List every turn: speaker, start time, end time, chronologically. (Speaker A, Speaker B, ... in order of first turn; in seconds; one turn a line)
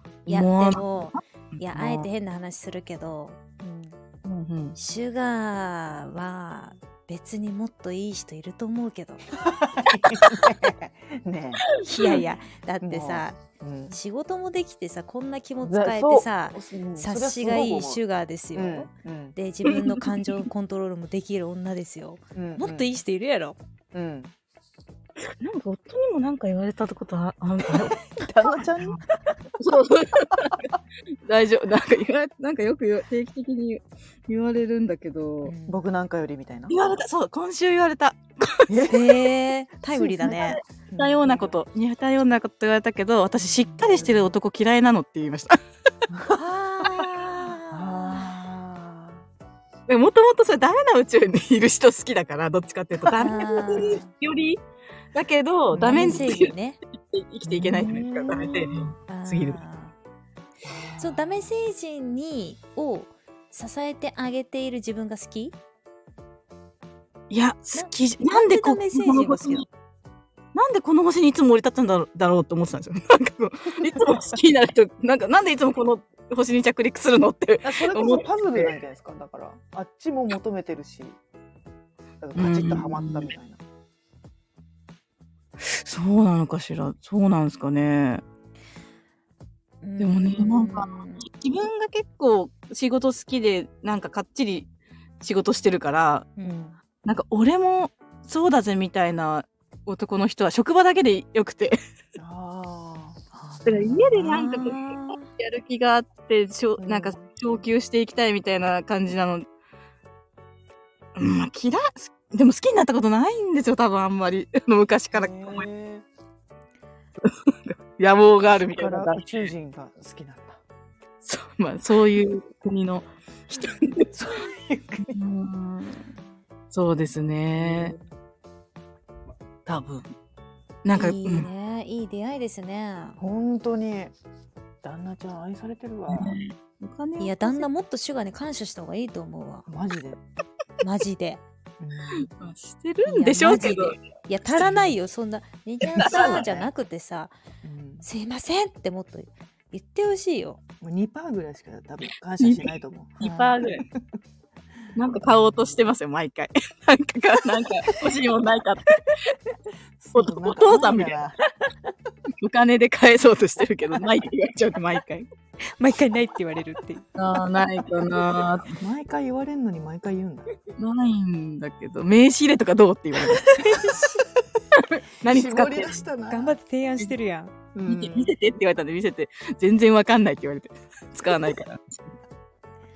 Speaker A: 0.3-2.1
Speaker B: 0.3-3.4
Speaker C: 3.6-4.0
Speaker A: 4.2-4.8
Speaker B: 4.8-9.3
Speaker C: 9.4-11.7
Speaker A: 11.7-12.2
Speaker B: 11.8-13.4
Speaker C: 12.8-13.9
Speaker B: 13.9-23.6
Speaker C: 15.6-18.0
Speaker C: 18.6-19.4
Speaker A: 19.6-20.4
Speaker C: 22.4-22.9
Speaker C: 23.9-24.3
Speaker A: 25.2-28.0
Speaker C: 27.7-29.0
Speaker A: 29.6-30.7
Speaker A: 31.2-35.5
Speaker B: 35.4-35.8
Speaker C: 35.7-36.8
Speaker A: 36.7-39.0
Speaker C: 38.7-39.1
Speaker B: 38.9-40.6
Speaker C: 39.9-41.6
Speaker A: 40.2-45.6
Speaker C: 43.7-44.3
Speaker C: 46.1-46.4
Speaker B: 46.3-48.3
Speaker C: 47.7-49.2
Speaker A: 49.9-54.6
Speaker C: 53.0-53.8
Speaker B: 53.1-54.1
Speaker A: 55.1-56.5
Speaker C: 55.7-56.4
Speaker B: 55.8-56.8
Speaker A: 57.1-59.6
Speaker C: 57.5-58.9
Speaker B: 59.1-60.0
Speaker C: 60.7-61.5
Speaker B: 61.0-65.6
Speaker A: 67.3-69.7
Speaker B: 67.8-69.7
Speaker A: 70.5-78.7
Speaker C: 77.6-81.2
Speaker C: 82.2-83.6
Speaker A: 82.4-83.3
Speaker A: 85.6-88.2
Speaker B: 89.8-91.3
Speaker A: 90.0-94.7
Speaker A: 95.2-96.3
Speaker B: 96.4-96.8
Speaker C: 96.4-96.7
Speaker A: 97.0-101.8
Speaker C: 102.2-103.2
Speaker B: 103.3-105.3
Speaker A: 103.7-109.5
Speaker C: 106.8-107.2
Speaker A: 111.1-115.6
Speaker C: 115.1-116.1
Speaker A: 117.2-119.5
Speaker C: 118.7-120.6
Speaker A: 121.2-124.1
Speaker C: 124.1-125.2
Speaker A: 125.1-126.0
Speaker A: 126.7-127.9
Speaker C: 127.6-128.0
Speaker A: 129.7-130.1
Speaker A: 130.8-131.5
Speaker B: 130.9-133.2
Speaker C: 133.2-134.1
Speaker C: 134.8-136.4
Speaker A: 136.1-137.7
Speaker B: 137.2-139.7
Speaker C: 139.7-140.2
Speaker B: 140.8-141.4
Speaker C: 141.8-142.3
Speaker A: 142.1-144.0
Speaker B: 143.1-147.3
Speaker A: 145.9-146.4
Speaker C: 146.0-146.7
Speaker C: 147.6-148.1
Speaker B: 148.0-150.6
Speaker C: 150.8-154.0
Speaker A: 152.4-153.8
Speaker B: 153.2-153.5
Speaker A: 154.9-159.4
Speaker C: 160.0-161.4
Speaker A: 160.1-161.2
Speaker A: 162.4-165.3
Speaker B: 165.8-167.1
Speaker A: 167.1-168.8
Speaker C: 168.7-170.5
Speaker A: 170.8-174.2
Speaker C: 173.3-174.2
Speaker A: 174.8-175.9
Speaker C: 175.2-176.6
Speaker B: 176.3-177.5
Speaker C: 177.7-178.3
Speaker A: 177.9-182.0